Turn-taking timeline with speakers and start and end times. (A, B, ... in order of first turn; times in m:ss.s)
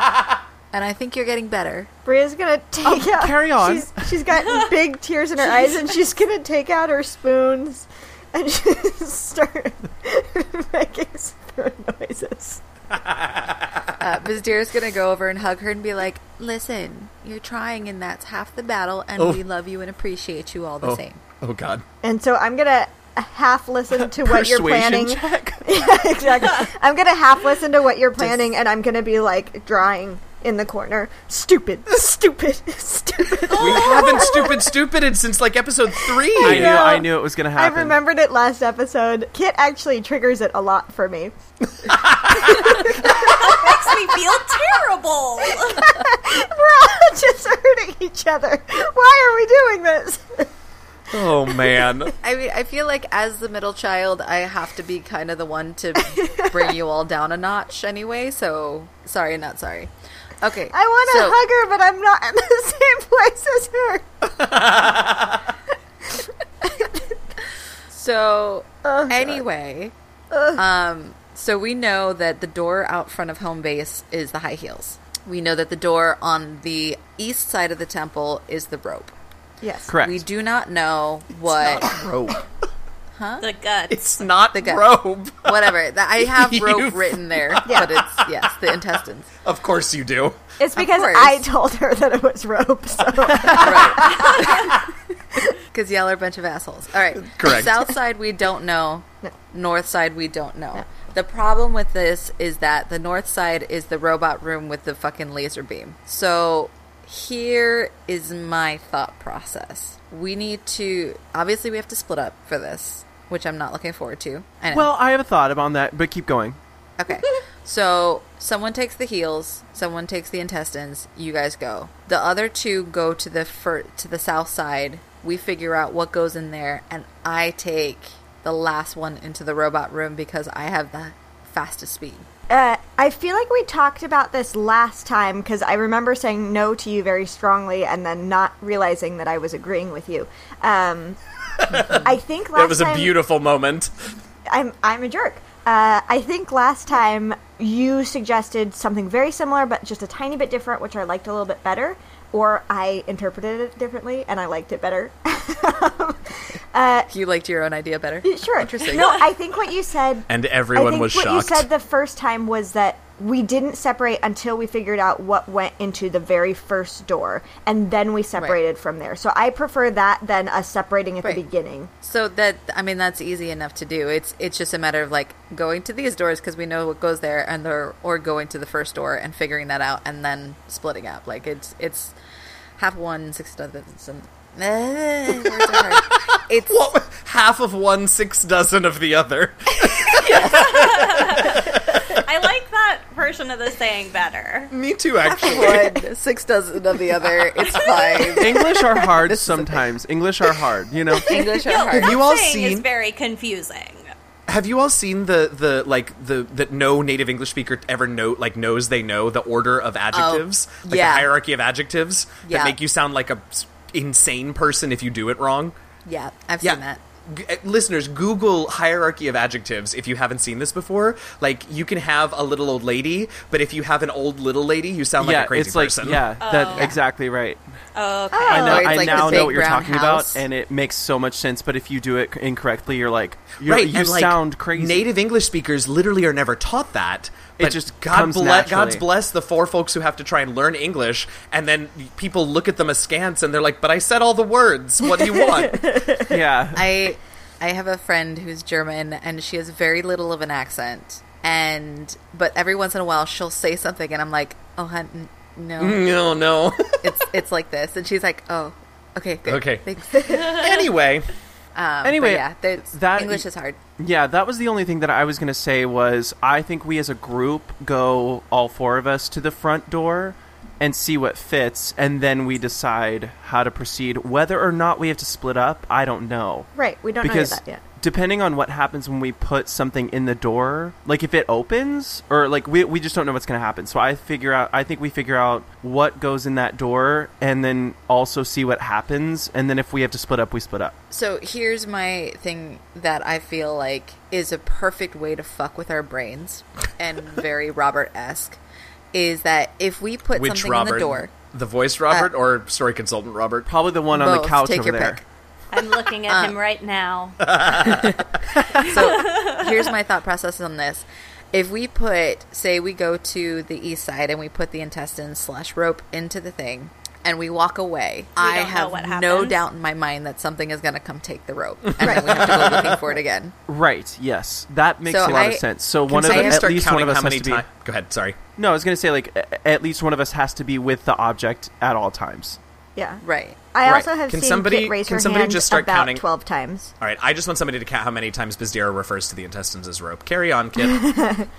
0:00.7-0:01.9 A
0:02.0-0:12.6 B
0:02.8-0:04.1 C
0:13.0-0:13.5 D
0:14.0-0:21.2 A
0:20.8-0:21.8 D
0:22.0-0:34.7 B
0:23.9-0:25.8 C
0:33.5-0:37.0 D
0:36.0-0:41.3 B
0:36.4-0:38.0 C
0:41.8-0:42.9 D
0:42.6-0:44.4 B
0:42.9-0:45.9 E
0:45.4-0:50.5 B
0:51.1-0:52.1 D
0:52.2-1:01.4 A
0:56.1-0:56.7 B
1:00.7-1:04.1 B
1:04.4-1:05.4 D
1:06.6-1:07.0 B
1:07.9-1:09.9 A
1:08.8-1:09.4 B
1:10.3-1:10.6 B
1:10.5-1:19.1 A
1:19.6-1:19.9 B
1:19.9-1:20.2 C
1:20.0-1:22.0 A
1:21.5-1:22.4 D
1:23.2-1:23.4 A
1:23.4-1:24.2 E
1:23.9-1:28.5 D
1:24.5-1:29.3 A
1:27.6-1:27.9 B
1:29.4-1:30.4 D
1:30.6-1:34.3 B
1:30.8-1:31.5 A
1:33.4-1:34.5 D
1:33.5-1:34.7 A
1:35.7-1:54.9 A
1:37.1-1:37.9 D
1:54.7-1:56.6 C
1:57.0-2:12.3 A
2:12.5-2:21.2 B
2:21.6-2:23.9 D
2:21.8-2:23.1 B
2:24.5-2:37.1 B
2:37.1-2:39.2 A
2:38.2-2:51.9 B
2:39.0-2:39.2 E
2:40.3-2:41.7 D
2:52.0-3:02.1 A
3:02.8-3:06.8 A
3:06.6-3:12.2 D
3:10.0-3:14.7 E
3:10.2-3:10.6 A
3:14.7-3:16.0 D
3:15.3-3:19.9 A
3:17.6-3:18.6 E
3:18.4-3:21.4 C
3:21.2-3:22.2 A
3:21.5-3:24.1 E
3:21.9-3:22.8 D
3:24.5-3:35.7 D
3:30.1-3:31.3 A
3:32.4-3:32.8 A
3:36.0-3:37.0 A
3:36.6-3:46.3 D
3:45.2-3:47.6 C
3:46.4-3:46.9 E
3:46.7-3:47.0 A
3:47.9-3:49.6 E
3:48.3-3:49.4 B
3:48.5-3:55.0 C
3:48.5-3:50.4 A
3:53.6-4:06.0 D
3:57.6-3:59.0 C
4:05.0-4:06.4 B
4:06.3-4:06.9 C
4:06.7-4:16.1 A
4:15.8-4:17.1 D
4:17.0-4:20.6 A
4:19.4-4:19.8 D
4:20.4-4:21.3 D
4:21.7-4:23.8 A
4:22.0-4:23.4 C
4:24.0-4:36.7 C
4:36.7-4:37.8 B
4:37.2-4:51.0 C
4:51.1-4:58.6 A
4:59.1-5:01.3 A
5:00.3-5:03.7 D
5:03.6-5:05.2 C
5:04.1-5:05.2 A
5:05.7-5:08.0 E
5:06.3-5:06.6 A
5:07.4-5:08.1 D
5:07.8-5:23.5 A
5:08.6-5:09.9 E
5:18.4-5:19.7 E
5:22.0-5:22.7 D
5:22.0-5:22.4 B
5:23.7-5:27.6 C
5:25.0-5:26.7 A
5:26.1-5:28.4 D
5:28.6-5:32.6 C
5:33.0-5:33.2 B
5:33.2-5:33.6 A
5:33.7-5:36.9 B
5:33.8-5:36.2 D
5:37.0-5:41.0 D
5:40.8-5:41.5 B